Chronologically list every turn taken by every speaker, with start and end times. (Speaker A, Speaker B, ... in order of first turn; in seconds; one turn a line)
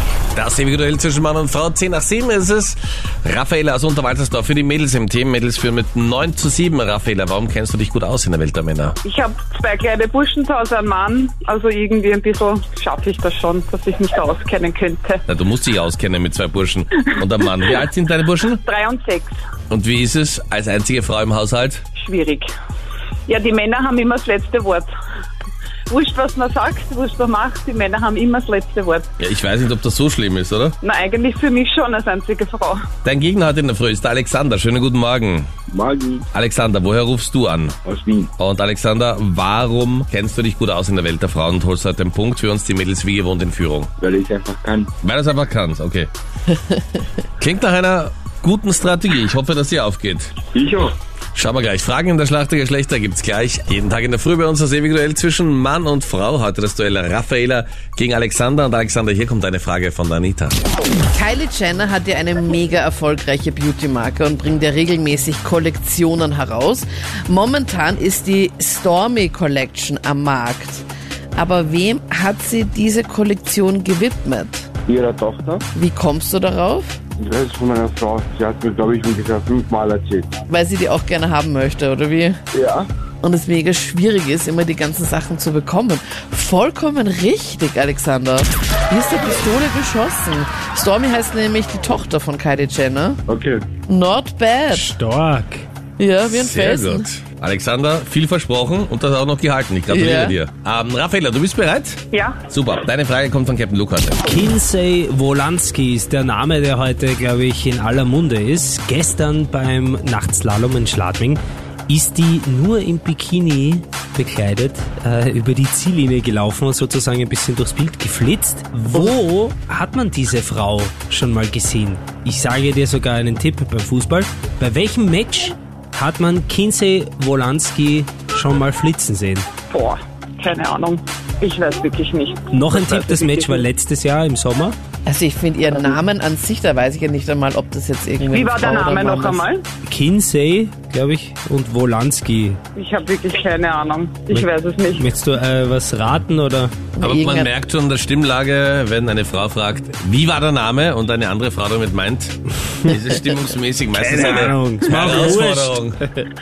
Speaker A: 0.3-8.9
Speaker B: 9.0-15.2
Speaker A: 15.3-18.6
Speaker B: 18.6-19.3
Speaker A: 19.7-21.8
Speaker B: 22.0-22.5
Speaker B: 23.3-24.9
Speaker B: 25.9-29.1
Speaker A: 29.2-30.7
Speaker B: 30.8-32.9
Speaker A: 33.0-35.5
Speaker C: 35.7-36.2
Speaker A: 36.3-37.8
Speaker C: 37.8-38.3
Speaker A: 38.4-43.9
Speaker C: 44.0-44.9
Speaker A: 45.0-46.1
Speaker A: 47.4-50.3
Speaker C: 50.5-50.9
Speaker A: 51.3-60.6
Speaker D: 61.1-74.7
Speaker C: 74.9-75.6
Speaker D: 75.7-77.0
Speaker C: 77.2-80.3
Speaker D: 80.5-82.3
Speaker C: 82.5-82.9
Speaker D: 83.2-93.2
Speaker C: 93.3-93.6
Speaker D: 93.9-94.9
Speaker E: 94.7-95.6
Speaker D: 96.0-97.1
Speaker A: 96.2-104.2
Speaker D: 99.9-100.3
Speaker B: 102.1-102.4
Speaker E: 104.2-129.4
Speaker B: 129.7-133.7
Speaker E: 132.5-134.8
Speaker D: 135.1-139.4
Speaker B: 138.3-139.6
Speaker E: 139.9-142.6
Speaker B: 142.7-145.1
Speaker E: 144.3-146.8
Speaker D: 146.9-147.5
Speaker A: 147.0-155.9
Speaker E: 153.9-156.2